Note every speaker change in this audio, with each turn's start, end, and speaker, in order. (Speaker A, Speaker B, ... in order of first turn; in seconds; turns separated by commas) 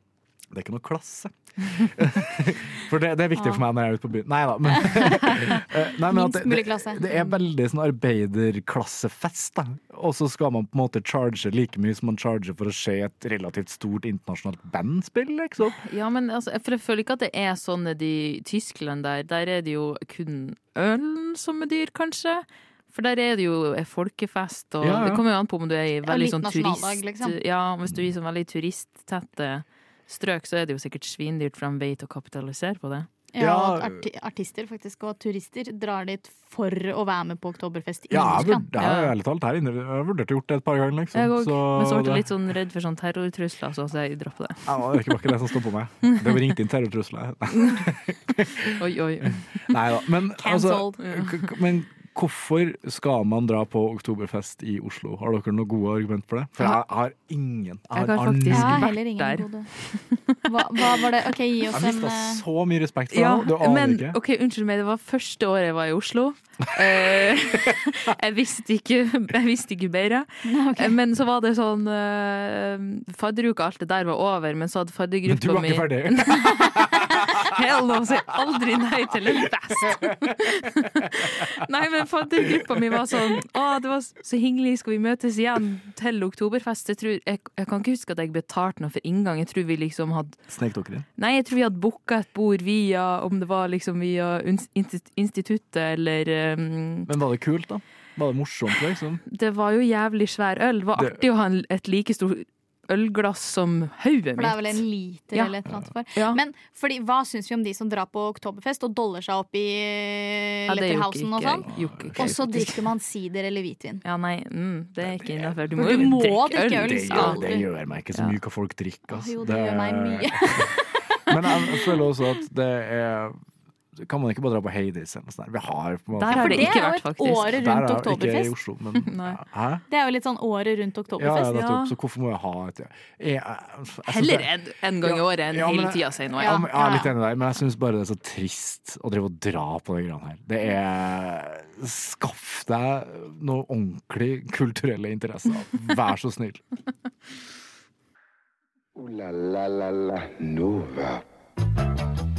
Speaker A: 0.5-15.8, Speaker B: 4.8-7.0, Speaker C: 15.8-33.1, Speaker A: 24.8-25.2, Speaker B: 26.1-27.4, Speaker B: 33.3-38.7, Speaker A: 33.4-34.0, Speaker A: 38.1-42.3, Speaker C: 38.8-39.1, Speaker C: 41.1-44.7, Speaker A: 44.7-58.9, Speaker C: 48.7-49.4, Speaker B: 50.4-51.0, Speaker C: 51.0-51.5, Speaker C: 57.9-60.5, Speaker B: 58.5-59.7, Speaker B: 60.4-62.4, Speaker A: 61.7-64.2, Speaker C: 63.1-90.4, Speaker B: 70.5-71.0, Speaker A: 75.3-77.5, Speaker A: 90.5-91.1, Speaker C: 91.2-97.1, Speaker A: 97.1-99.2, Speaker C: 99.3-104.8, Speaker A: 101.0-101.2, Speaker B: 104.4-114.0, Speaker C: 106.2-106.4, Speaker C: 110.7-112.9, Speaker A: 111.7-112.4, Speaker C: 114.0-117.4, Speaker A: 115.1-116.2, Speaker B: 115.8-117.7, Speaker A: 116.8-123.4, Speaker B: 119.1-121.8, Speaker A: 124.0-129.8, Speaker C: 126.2-127.6, Speaker B: 126.3-128.5, Speaker C: 129.0-129.4, Speaker B: 129.9-131.6, Speaker A: 131.2-134.5, Speaker C: 131.4-131.9, Speaker C: 134.1-136.6, Speaker A: 135.0-146.6, Speaker B: 136.4-137.1, Speaker D: 149.0-151.2